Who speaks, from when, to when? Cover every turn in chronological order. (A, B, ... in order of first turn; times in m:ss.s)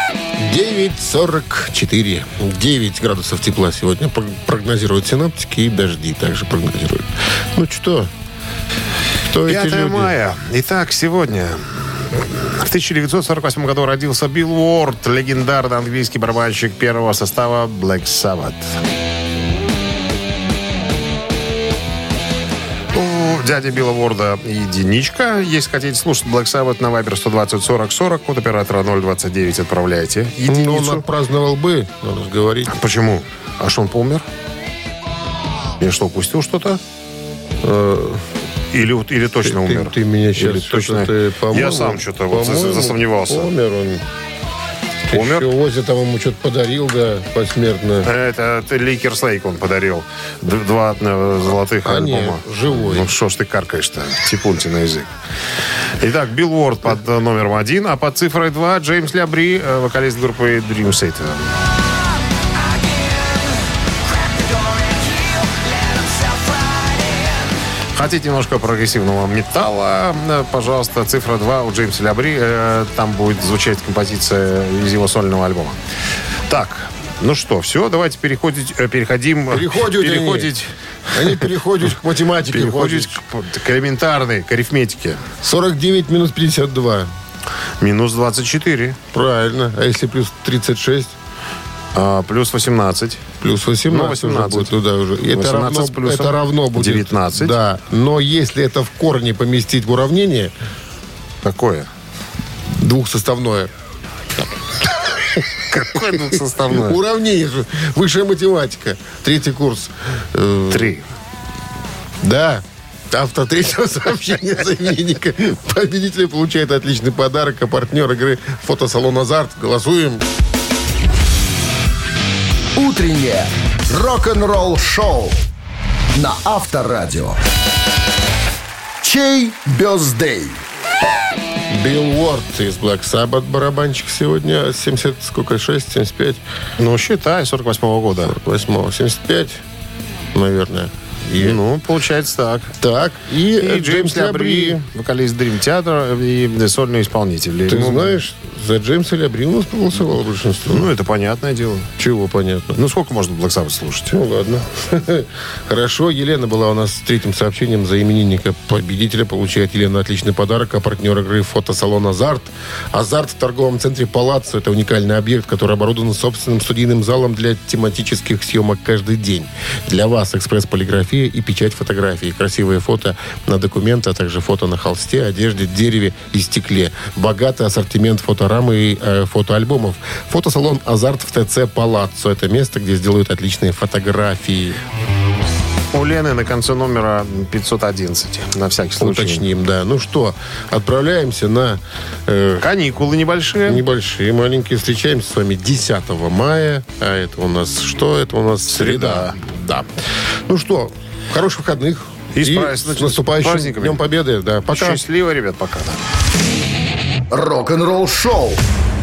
0:00.4-0:08.1 A
0:09.3-0:10.2 A
0:09.5-0:18.6 B
0:22.9-0:31.0 B
0:30.4-0:32.8 A
0:32.7-0:34.2 B
0:35.8-0:36.8 B
0:37.6-0:38.2 A
0:38.7-0:43.4 B
0:39.3-0:44.0 A
0:45.0-0:48.1 A
0:45.1-0:45.5 B
0:48.1-0:55.1 B
0:51.7-0:53.1 A
0:56.0-1:01.4 B
1:07.9-1:15.8 B
1:16.5-1:20.6 B
1:19.5-1:20.5 A
1:21.1-1:23.2 A
1:22.5-1:25.2 B
1:25.4-1:27.1 A
1:27.8-1:29.0 B
1:29.1-1:31.2 A
1:31.9-1:33.2 B
1:33.4-1:40.5 A
1:33.9-1:34.7 B
1:35.3-1:37.5 B
1:41.4-1:41.9 B
1:42.7-1:43.7 A
1:45.7-1:47.0 B
1:46.3-1:51.0 A
1:50.7-1:51.0 B
1:52.2-2:00.2 A
2:02.8-2:05.4 C
2:06.1-2:07.4 C
2:09.0-2:10.6 C
2:11.7-2:16.4 A
2:16.8-2:18.3 B
2:18.2-2:19.6 A
2:20.3-2:21.6 A
2:21.4-2:22.7 B
2:22.8-2:24.8 A
2:23.6-2:28.1 B
2:27.7-2:30.9 A
2:30.7-2:31.9 B
2:32.0-2:32.8 A
2:32.8-2:34.1 B
2:34.1-3:04.8 A
3:05.9-3:09.4 B
3:09.0-3:12.7 A
3:12.6-3:13.8 B
3:13.6-3:19.9 A
3:18.7-3:19.3 B
3:20.5-3:25.0 A
3:22.4-3:24.0 B
3:24.7-3:26.0 B
3:27.3-3:28.6 C